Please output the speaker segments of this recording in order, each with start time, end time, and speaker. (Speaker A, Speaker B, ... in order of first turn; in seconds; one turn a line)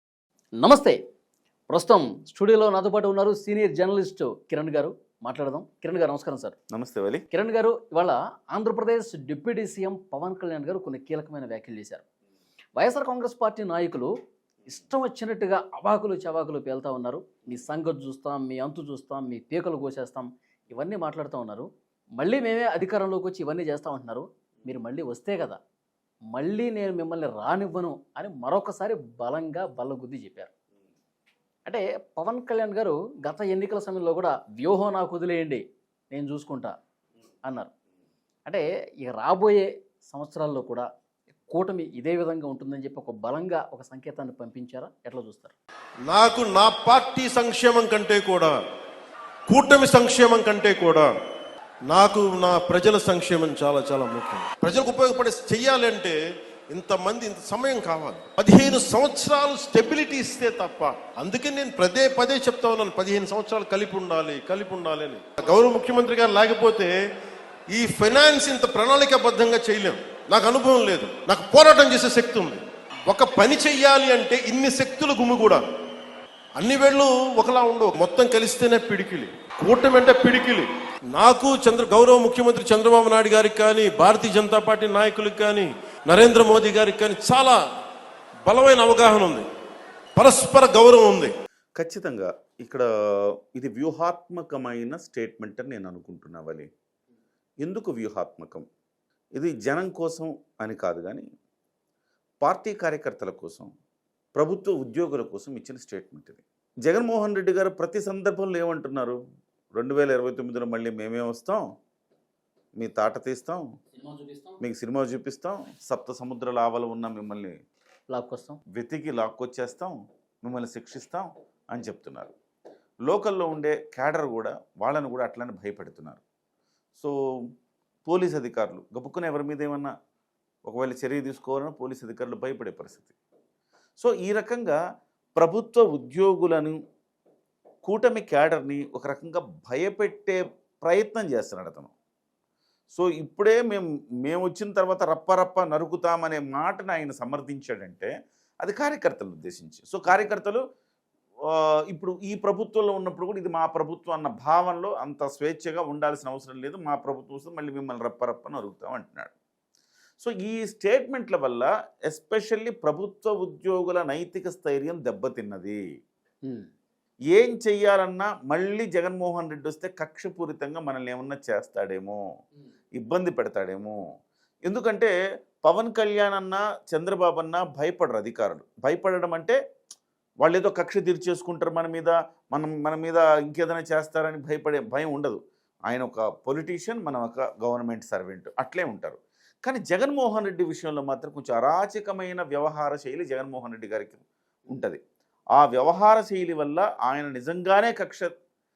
Speaker A: 0.6-1.0
Speaker A: 1.7-6.5
Speaker B: 6.7-7.2
Speaker A: 7.3-12.0
Speaker A: 12.8-14.1
Speaker A: 14.7-21.7
Speaker A: 22.2-25.6
Speaker A: 26.3-30.5
Speaker A: 31.6-36.7
Speaker A: 38.5-40.9
Speaker A: 41.5-45.5
Speaker C: 46.1-48.5
Speaker C: 49.5-51.1
Speaker C: 51.9-56.2
Speaker C: 56.7-66.9
Speaker C: 67.7-75.6
Speaker C: 76.6-87.6
Speaker C: 88.5-89.5
Speaker C: 90.2-91.3
Speaker B: 91.8-96.7
Speaker B: 97.6-98.7
Speaker B: 99.3-101.3
Speaker B: 102.4-103.7
Speaker B: 104.3-109.2
Speaker B: 109.8-111.6
Speaker B: 112.8-113.6
Speaker A: 114.0-114.6
Speaker B: 114.6-117.5
Speaker A: 118.1-118.6
Speaker B: 118.7-122.3
Speaker B: 123.1-126.2
Speaker B: 128.1-129.9
Speaker B: 130.7-133.1
Speaker B: 134.0-134.8
Speaker B: 135.3-136.8
Speaker B: 137.8-141.9
Speaker B: 142.9-150.6
Speaker B: 151.5-159.3
Speaker B: 160.2-165.8
Speaker B: 167.3-172.2
Speaker B: 173.0-174.0
Speaker B: 174.7-175.1
Speaker B: 175.6-179.6
Speaker B: 180.4-195.0
Speaker B: 195.6-198.3